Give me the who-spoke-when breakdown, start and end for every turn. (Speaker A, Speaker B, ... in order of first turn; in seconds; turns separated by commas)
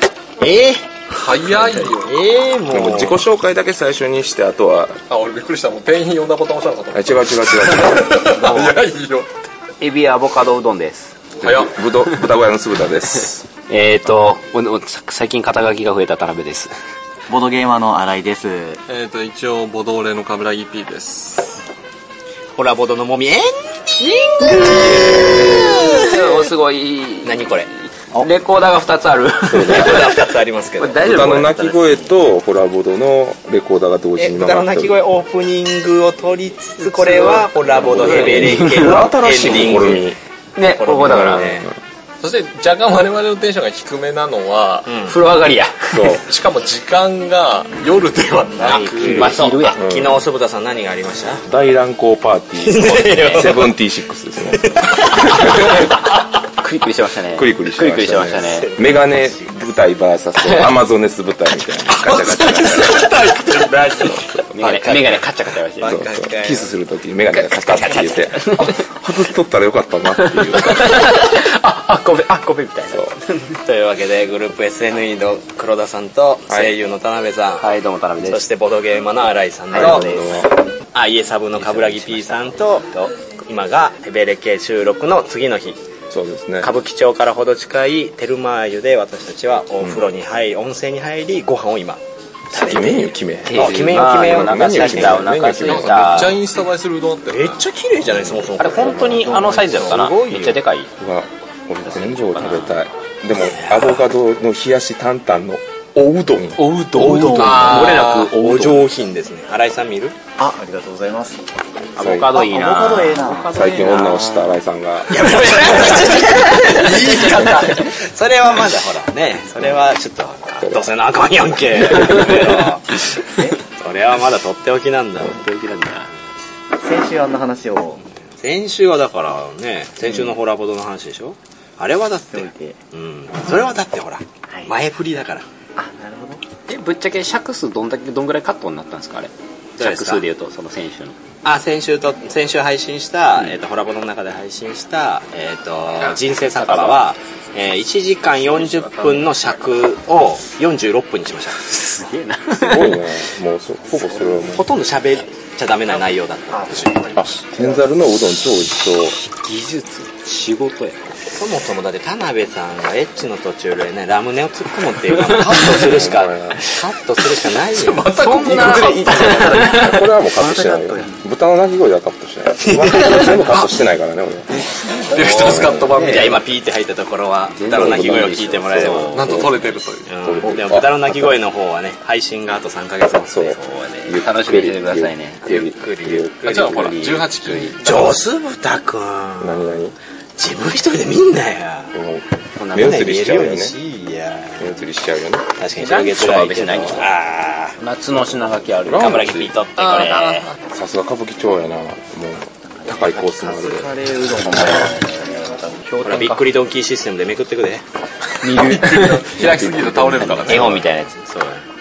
Speaker A: 0.4-0.9, Speaker B: 1.1-2.2, Speaker A: 1.9-3.3, Speaker C: 2.7-5.0, Speaker B: 5.1-9.3, Speaker C: 6.9-8.5, Speaker D: 8.4-8.7, Speaker D: 9.8-11.3, Speaker C: 11.4-13.5, Speaker B: 11.4-11.8, Speaker D: 13.7-16.7, Speaker E: 17.3-18.8, Speaker B: 18.9-21.6, Speaker A: 22.6-26.5, Speaker D: 24.4-30.2, Speaker A: 27.2-27.7, Speaker C: 29.5-30.1, Speaker A: 29.6-32.1, Speaker D: 30.8-31.7, Speaker C: 31.0-35.0, Speaker A: 34.2-40.0, Speaker D: 36.8-40.0, Speaker B: 37.6-38.3, Speaker C: 37.9-40.2, Speaker D: 40.6-41.6, Speaker A: 40.7-41.7, Speaker C: 41.0-41.7, Speaker B: 42.2-44.9, Speaker A: 44.9-45.2, Speaker D: 45.0-46.2, Speaker C: 45.9-46.2, Speaker B: 46.2-49.4, Speaker D: 48.6-49.8, Speaker A: 48.6-51.4, Speaker C: 49.8-50.2, Speaker C: 51.5-55.9, Speaker A: 52.6-53.8, Speaker A: 54.5-56.0, Speaker D: 55.5-56.0, Speaker D: 56.6-58.7, Speaker C: 57.4-63.1, Speaker A: 58.5-59.5, Speaker B: 61.9-64.8, Speaker D: 64.5-66.1, Speaker A: 64.6-66.7, Speaker C: 65.8-71.2, Speaker D: 67.5-68.9, Speaker A: 67.7-68.2, Speaker D: 70.2-73.4, Speaker C: 72.9-73.2, Speaker A: 73.5-77.7, Speaker D: 77.6-78.5, Speaker A: 78.2-80.2, Speaker D: 79.7-80.5, Speaker C: 79.8-80.5, Speaker A: 80.9-85.8, Speaker D: 81.5-83.1, Speaker C: 86.1-86.7, Speaker A: 86.6-95.3, Speaker C: 89.8-90.1, Speaker C: 92.5-96.4, Speaker D: 93.5-96.4, Speaker B: 95.5-97.7, Speaker A: 97.3-100.6, Speaker D: 98.5-100.9, Speaker C: 101.0-107.4, Speaker D: 101.9-102.8, Speaker A: 103.4-104.0, Speaker B: 106.6-108.3, Speaker D: 106.9-108.9, Speaker E: 107.0-107.7, Speaker A: 107.3-110.2, Speaker E: 110.4-111.5, Speaker D: 112.0-114.0, Speaker C: 112.0-112.4, Speaker E: 112.3-114.6, Speaker C: 113.5-116.3, Speaker A: 115.1-123.0, Speaker E: 115.5-117.6, Speaker C: 120.6-120.9, Speaker A: 123.7-125.5, Speaker D: 125.2-126.1, Speaker E: 126.8-128.0, Speaker A: 128.4-135.5, Speaker E: 132.3-132.8, Speaker E: 135.8-136.4, Speaker D: 136.7-141.2, Speaker A: 139.8-140.2, Speaker A: 141.4-151.6, Speaker D: 146.0-147.1, Speaker D: 151.6-153.2, Speaker C: 152.5-154.7, Speaker D: 154.0-154.6, Speaker A: 154.5-157.0, Speaker E: 156.5-157.8, Speaker C: 157.1-159.2, Speaker D: 159.2-161.1, Speaker A: 161.3-169.4, Speaker D: 165.2-166.1, Speaker C: 165.6-166.6, Speaker B: 167.8-169.6, Speaker D: 168.2-170.1, Speaker C: 168.4-174.6, Speaker E: 169.1-171.2, Speaker A: 172.6-173.3, Speaker B: 175.1-176.3, Speaker D: 175.1-176.4, Speaker A: 175.1-179.4, Speaker C: 175.3-175.9, Speaker D: 177.5-179.6, Speaker C: 177.7-178.2, Speaker B: 179.1-180.1, Speaker C: 179.1-180.9, Speaker A: 180.1-184.1, Speaker C: 183.3-187.2, Speaker D: 183.9-185.4, Speaker A: 185.4-186.3, Speaker B: 186.4-188.2, Speaker D: 186.6-187.7, Speaker A: 187.8-189.8, Speaker C: 189.4-189.9, Speaker A: 190.4-191.9, Speaker C: 191.9-193.8, Speaker D: 192.6-193.2, Speaker A: 192.8-194.7, Speaker C: 194.6-195.5, Speaker A: 195.6-197.8, Speaker D: 195.7-197.1, Speaker C: 196.6-197.0, Speaker D: 197.8-200.5, Speaker C: 198.9-199.6, Speaker B: 199.8-200.6, Speaker C: 200.6-203.9, Speaker E: 202.7-205.8, Speaker D: 204.4-205.1, Speaker D: 205.8-206.4, Speaker A: 206.0-207.8, Speaker D: 208.4-209.4, Speaker B: 208.4-210.8, Speaker C: 209.3-210.8, Speaker D: 210.0-211.2, Speaker A: 211.1-211.7